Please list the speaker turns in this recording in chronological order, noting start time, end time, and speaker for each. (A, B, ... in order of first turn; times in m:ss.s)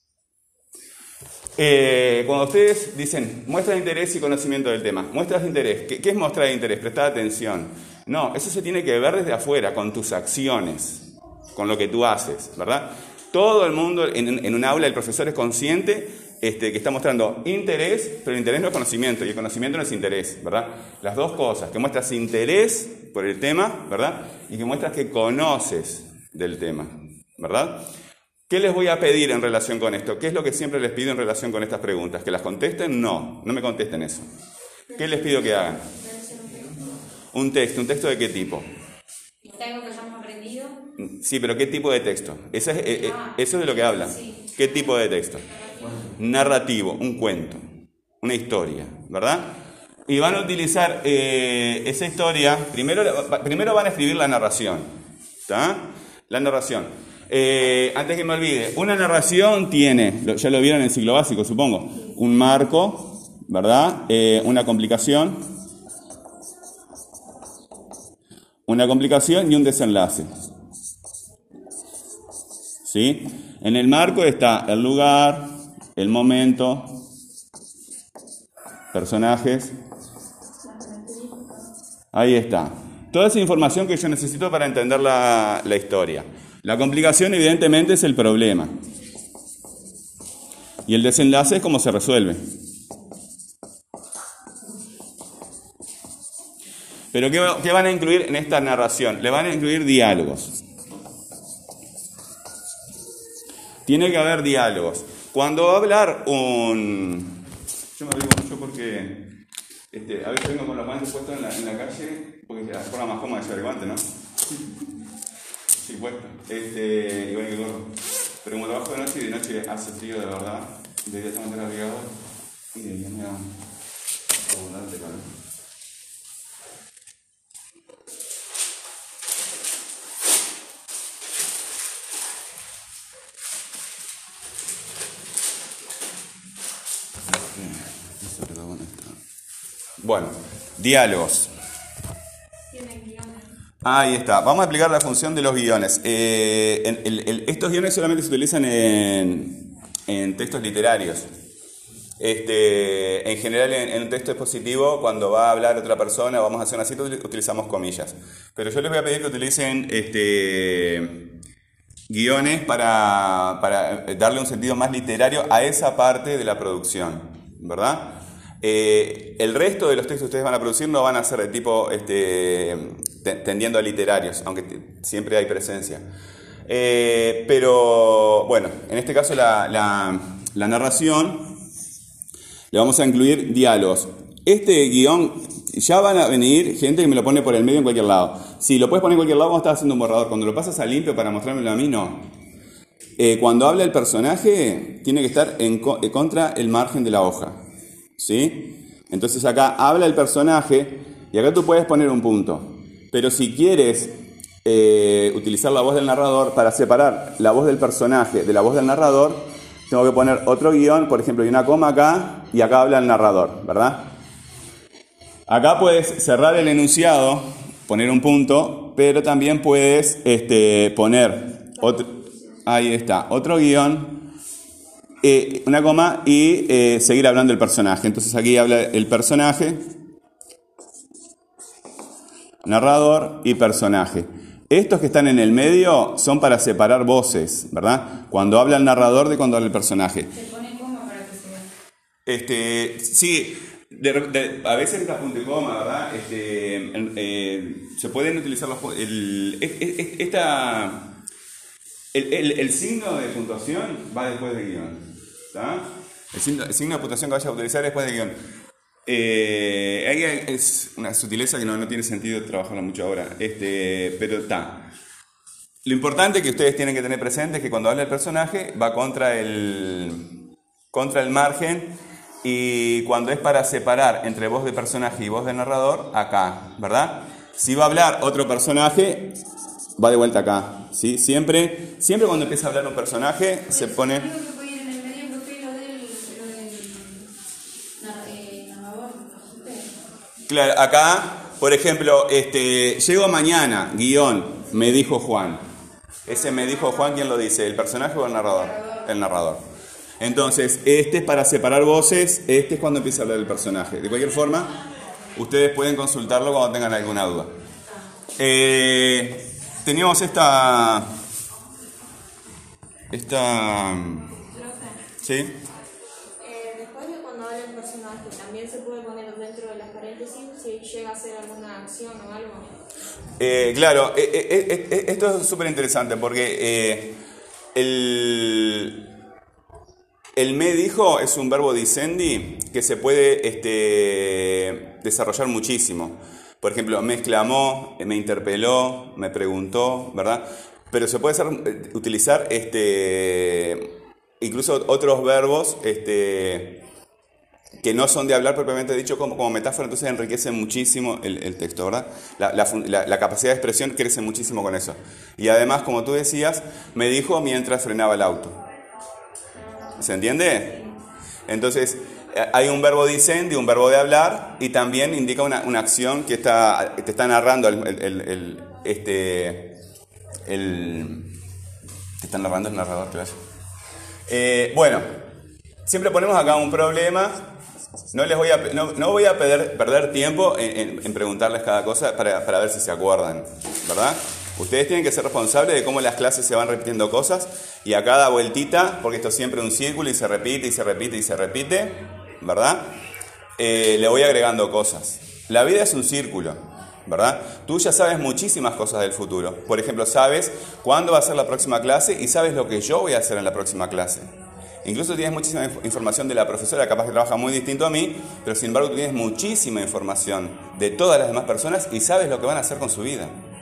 0:01.6-0:27.8 A
0:28.5-0:34.3 A
0:35.0-0:35.9 A
0:36.0-0:36.8 B
0:37.3-0:38.7 A
0:39.4-0:40.8 C
0:41.0-0:45.5 A
0:43.0-0:43.4 C
0:44.0-0:44.7 C
0:45.5-0:46.1 C
0:46.2-0:47.6 A
0:48.2-0:54.9 A
0:55.5-1:05.4 A
1:08.7-1:10.3 A
1:12.8-1:17.0 A
1:18.9-1:19.7 A
1:20.8-1:21.4 B
1:22.1-1:28.8 A
1:30.9-1:32.4 A
1:37.1-1:40.6 A
1:43.9-1:47.4 A
1:48.0-1:49.3 A
1:49.9-1:54.1 A
1:55.8-2:02.1 A
2:02.7-2:03.6 A
2:04.4-2:05.3 A
2:17.3-2:19.2 A
2:20.0-2:21.5 A
2:22.7-2:23.5 B
2:23.8-2:31.3 A
2:32.2-2:41.3 A
2:42.1-2:56.0 A
2:56.7-3:01.5 A
3:02.7-3:12.3 A
3:13.2-3:17.6 A
3:18.2-3:24.1 A
3:24.6-3:34.1 A
3:35.5-3:42.1 A
3:42.6-3:44.3 A
3:45.2-3:49.9 A
3:52.6-4:00.3 A
4:00.3-4:01.7 C
4:02.3-4:11.1 A
4:12.1-4:18.4 A
4:19.1-4:24.9 A
4:25.8-4:30.3 A
4:30.9-4:31.9 A
4:32.4-4:39.4 A
4:40.0-4:44.3 A
4:43.7-4:47.3 C
4:48.0-4:49.9 C
4:50.5-4:55.6 A
4:56.2-4:59.6 A
4:58.6-4:59.0 C
5:00.2-5:04.8 A
5:05.4-5:07.5 A
5:08.4-5:11.1 A
5:13.1-5:14.4 A
5:15.2-5:15.5 A
5:16.4-5:22.7 B
5:23.4-5:27.2 A
5:27.8-5:29.0 A
5:30.4-5:43.9 A
5:44.4-5:46.8 A
5:47.8-5:58.6 A
6:00.0-6:00.8 A
6:01.5-6:09.7 A
6:10.5-6:11.3 A
6:12.2-6:13.4 A
6:14.3-6:15.1 A
6:15.9-6:17.5 A
6:18.1-6:32.9 A
6:33.6-6:44.3 A
6:44.8-6:53.4 A